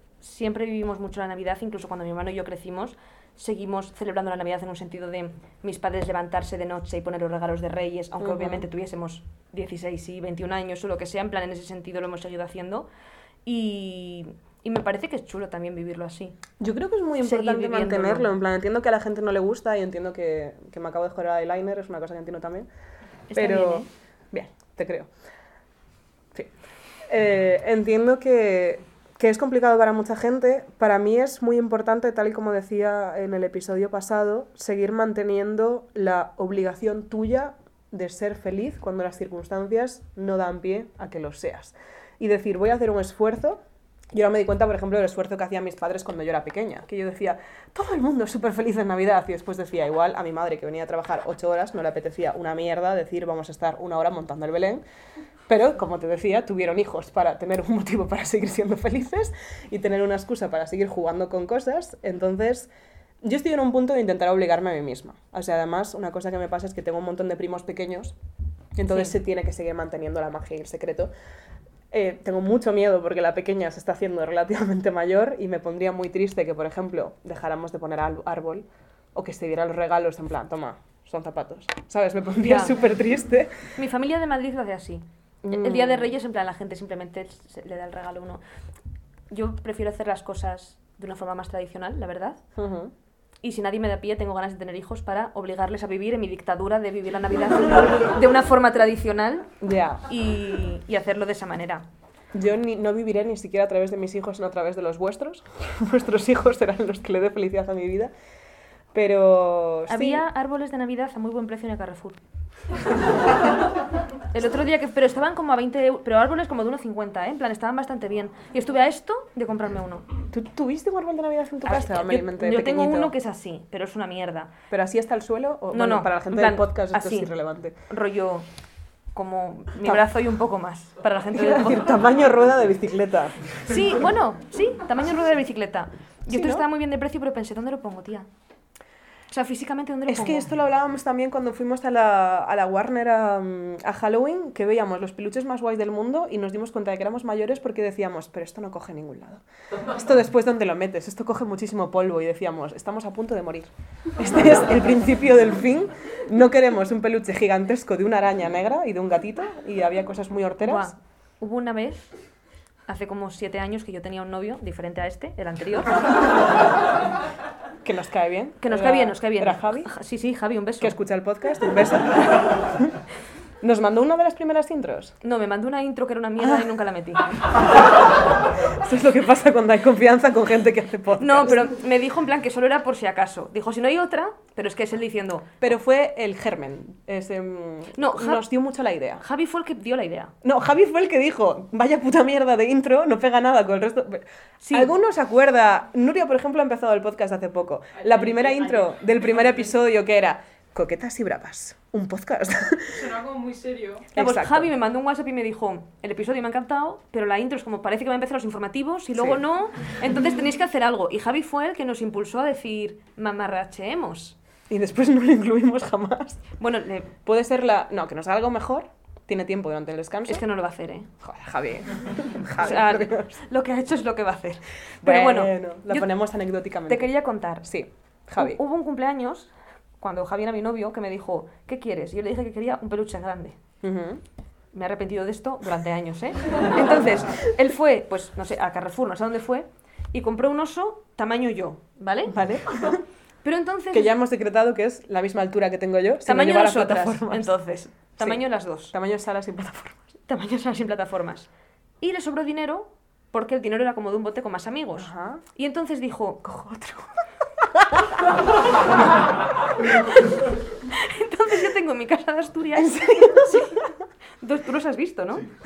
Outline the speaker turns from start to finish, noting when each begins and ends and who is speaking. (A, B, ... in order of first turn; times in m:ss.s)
0:00.2-0:12.9 A
0:08.2-0:08.7 B
0:13.5-0:16.4 A
0:16.6-0:22.7 B
0:17.2-0:18.3 A
0:23.3-0:23.9 A
0:23.3-0:25.1 B
0:27.1-0:54.8 B
0:55.5-1:02.7 B
1:03.2-1:08.2 B
1:08.8-1:11.1 B
1:08.9-1:09.2 A
1:11.9-1:23.6 B
1:22.4-1:22.8 A
1:23.8-1:28.4 A
1:25.4-1:26.1 B
1:29.3-1:32.4 A
1:32.6-1:32.9 B
1:33.4-1:39.5 A
1:39.6-1:40.0 B
1:40.1-1:41.8 A
1:42.3-1:48.1 B
1:48.9-1:50.2 B
1:49.9-1:52.2 A
1:54.3-2:00.1 A
2:00.3-2:03.1 B
2:01.6-2:04.5 A
2:04.7-2:07.8 B
2:05.7-2:07.3 A
2:07.9-2:08.5 A
2:09.1-2:11.9 A
2:11.3-2:13.4 B
2:13.7-2:18.3 A
2:16.3-2:16.6 B
2:19.3-2:20.5 A
2:20.1-2:40.9 B
2:40.6-2:42.1 A
2:42.9-2:46.0 A
2:47.8-2:49.9 B
2:48.6-2:51.0 A
2:50.8-2:53.0 B
2:53.6-2:55.2 B
2:55.2-2:57.4 A
2:56.4-2:56.6 B
2:58.8-3:01.7 B
3:01.2-3:05.5 A
3:05.6-3:09.2 B
3:08.0-3:08.4 A
3:09.2-3:10.3 A
3:10.4-3:23.0 B
3:14.6-3:14.9 A
3:18.0-3:19.7 C
3:22.9-3:24.1 C
3:24.1-3:24.7 B
3:24.1-3:34.4 A
3:29.1-3:29.4 B
3:34.7-3:36.4 B
3:36.6-3:37.1 A
3:37.2-3:40.4 B
3:40.3-3:41.1 A
3:41.2-3:43.4 B
3:42.6-3:46.1 A
3:45.0-3:48.6 B
3:46.9-3:47.7 A
3:48.4-3:53.6 A
3:53.8-3:54.2 B
3:54.7-4:02.4 A
4:02.3-4:03.0 B
4:03.4-4:04.1 A
4:03.9-4:07.5 B
4:06.2-4:08.9 A
4:08.2-4:10.1 B
4:10.3-4:11.5 A
4:12.0-4:17.0 A
4:15.0-4:15.4 B
4:20.0-4:23.8 A
4:22.8-4:23.9 B
4:24.4-4:25.5 A